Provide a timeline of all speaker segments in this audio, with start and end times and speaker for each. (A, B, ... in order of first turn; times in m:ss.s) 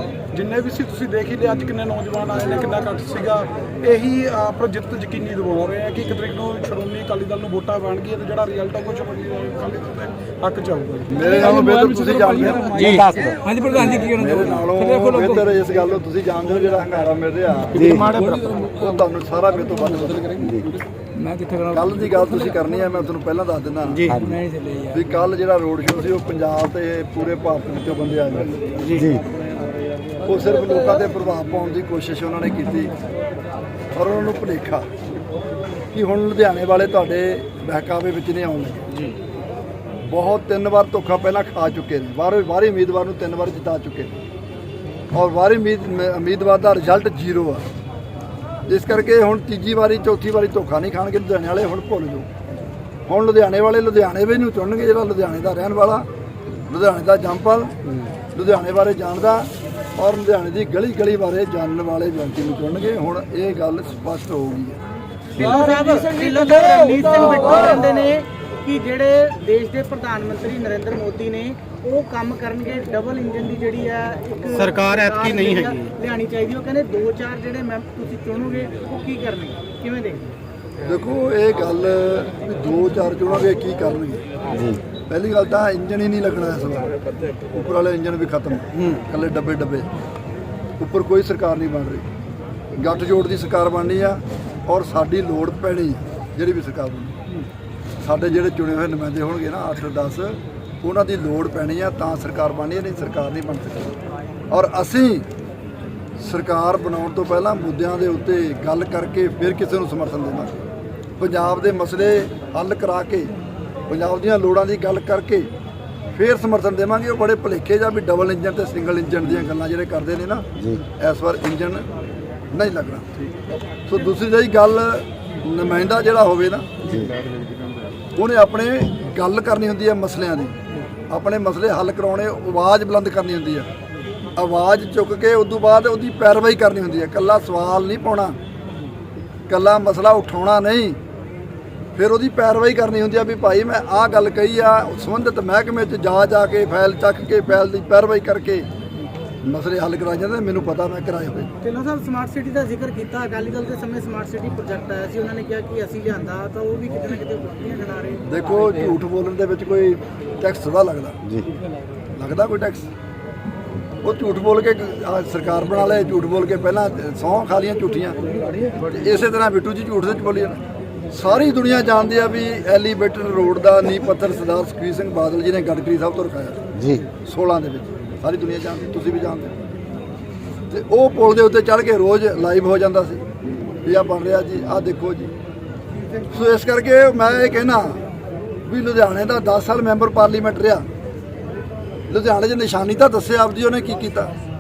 0:00.3-0:14.1 A
0:11.1-0:13.0 B
0:11.2-0:15.6 C
0:12.8-0:13.3 D
0:14.0-0:20.5 B
0:17.7-0:19.0 C
0:17.7-0:18.2 D
0:20.4-0:20.7 D
0:21.2-0:22.5 C
0:21.7-0:24.2 B
0:24.1-0:24.4 D
0:24.1-0:25.0 C
0:24.9-0:28.8 B
0:28.9-0:29.2 D
0:30.2-0:32.9 B
0:33.9-0:34.9 B
0:35.9-0:38.8 B
0:40.0-0:44.1 B
0:45.1-0:47.6 B
0:48.7-0:52.3 B
0:53.1-0:56.1 B
0:56.7-0:57.7 B
0:58.3-1:04.8 B
1:05.4-1:07.9 A
1:05.4-1:20.3 E
1:20.8-1:24.2 B
1:24.5-1:24.8 D
1:25.1-1:29.9 B
1:30.8-1:32.0 B
1:32.8-1:37.2 B
1:38.0-1:44.0 B
1:44.5-1:45.2 B
1:46.2-1:50.6 B
1:51.2-1:53.3 B
1:53.9-1:55.5 B
1:56.1-2:01.9 B
2:00.6-2:00.8 D
2:02.5-2:03.1 B
2:03.9-2:06.7 B
2:06.8-2:07.1 D
2:08.2-2:10.6 B
2:11.1-2:13.7 B
2:14.4-2:18.4 B
2:19.5-2:21.0 B
2:22.0-2:28.7 B
2:29.4-2:31.5 B
2:31.6-2:38.9 E
2:38.2-2:41.2 B
2:42.1-2:42.9 B
2:44.0-2:56.6 B
2:56.8-2:57.0 D
2:57.2-2:59.5 B
3:00.7-3:03.2 B
3:03.8-3:05.3 B
3:06.3-3:08.0 B
3:08.7-3:10.9 B
3:12.1-3:14.3 B